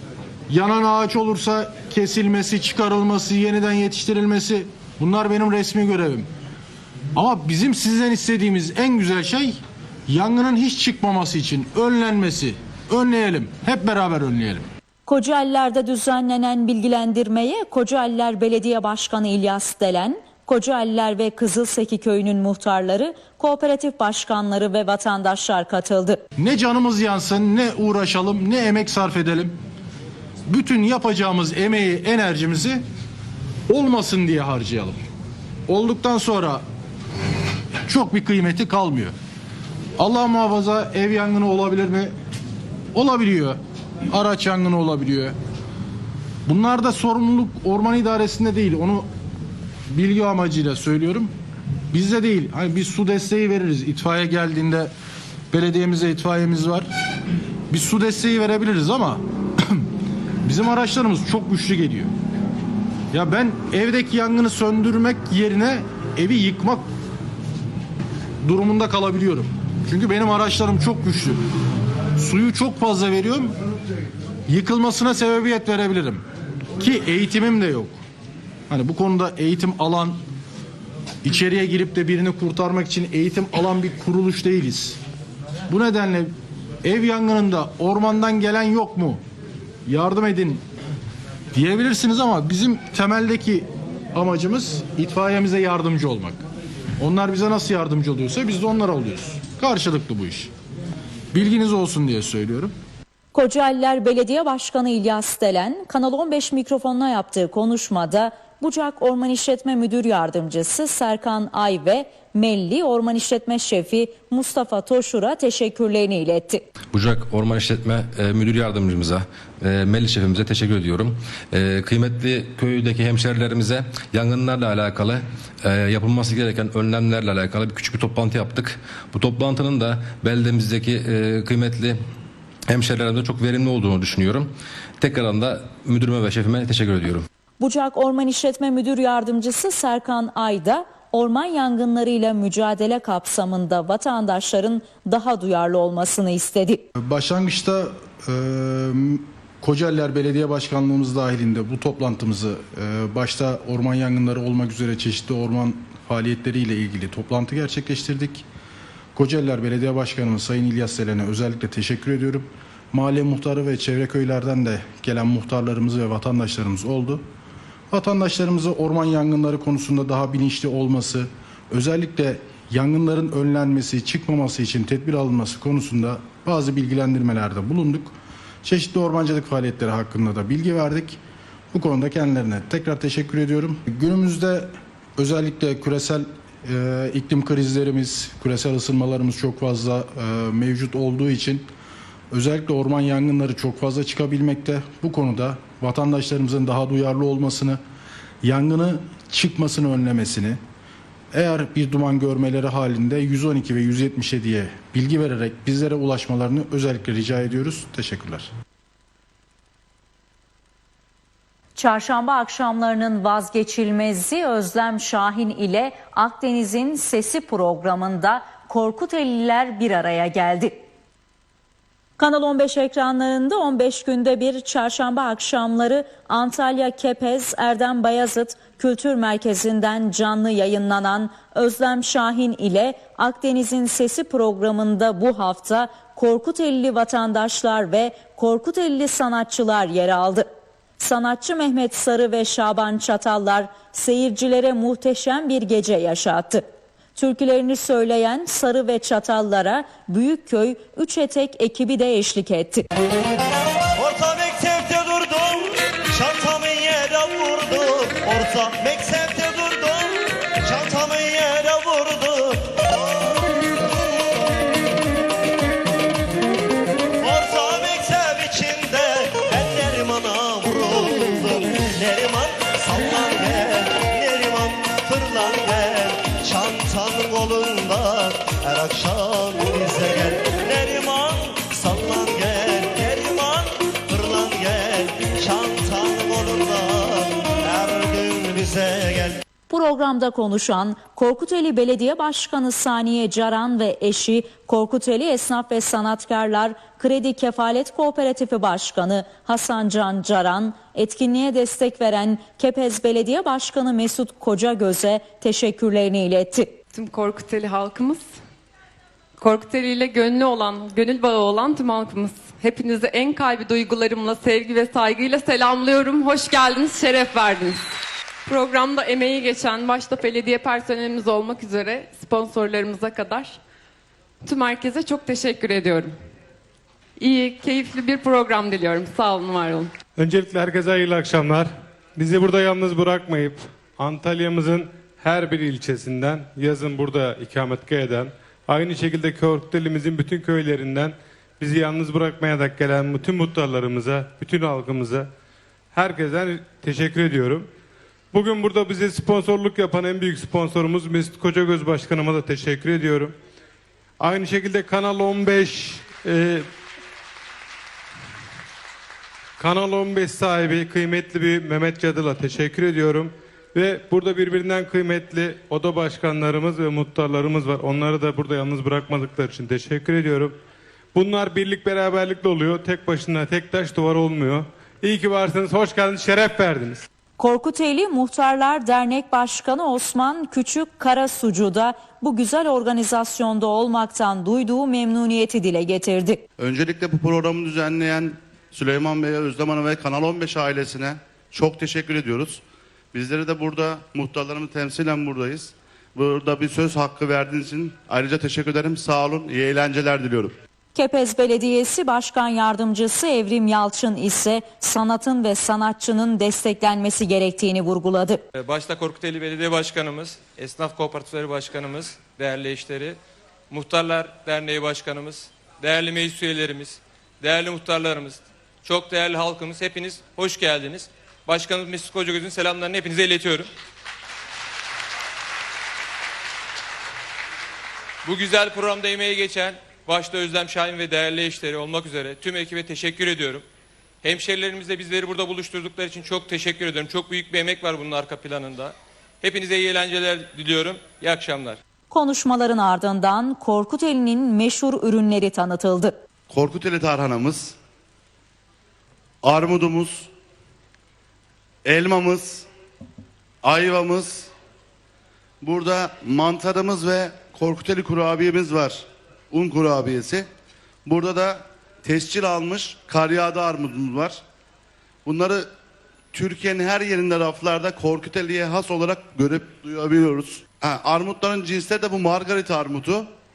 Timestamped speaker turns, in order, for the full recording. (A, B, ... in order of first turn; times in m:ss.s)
0:00.5-0:06.3 A
0:07.1-0:14.6 A
0:15.0-0:26.2 B
0:26.4-0:29.6 A
0:30.4-0:32.8 A
0:33.7-0:35.0 A
0:35.7-0:36.6 A
0:37.8-0:39.1 A
0:40.0-0:42.1 A
0:42.9-0:45.4 A
0:46.4-0:49.0 A
0:49.9-0:51.3 A
0:51.9-0:54.9 A
0:55.5-0:56.9 A
0:57.7-0:59.9 A
1:00.4-1:02.1 A
1:03.1-1:06.8 A
1:08.4-1:11.4 A
1:12.2-1:13.5 A
1:14.5-1:16.2 A
1:16.8-1:18.0 A
1:18.7-1:20.2 A
1:21.2-1:25.0 A
1:25.7-1:29.2 A
1:29.8-1:30.6 A
1:31.5-1:36.4 A
1:37.0-1:40.5 A
1:41.3-1:42.7 A
1:43.3-1:56.6 B
1:56.9-2:12.0 C
2:12.7-2:17.2 C
2:17.6-2:26.8 B
2:26.9-2:38.4 A
2:39.1-2:47.2 A
2:47.9-3:01.2 A
3:01.7-3:11.7 A
3:12.3-3:17.8 A
3:18.4-3:20.6 A
3:21.3-3:28.5 A
3:31.8-3:40.8 B
3:42.2-4:06.6 B
4:07.2-4:12.9 B
4:13.9-4:23.6 D
4:27.2-4:49.4 D
4:49.7-5:06.8 B
5:06.9-5:08.4 E
5:09.4-5:17.8 E
5:18.4-5:23.6 E
5:24.4-5:26.1 E
5:27.2-5:29.9 E
5:30.2-5:45.3 F
5:45.9-5:47.7 F
5:48.3-5:53.3 F
5:54.2-5:56.7 F
5:59.6-6:10.6 F
6:11.1-6:17.0 F
6:17.4-6:26.4 B
6:26.6-6:40.6 G
6:40.9-6:48.4 B
6:48.5-6:53.2 H
6:53.7-7:03.7 H
7:08.2-7:13.6 H
7:14.2-7:21.8 H
7:22.1-7:26.1 B
7:26.5-7:27.7 G
7:29.4-7:30.3 G
7:31.8-7:32.6 G
7:33.6-7:34.5 G
7:35.6-7:40.5 G
7:41.0-7:44.4 G
7:45.2-7:45.7 G
7:46.3-7:53.3 G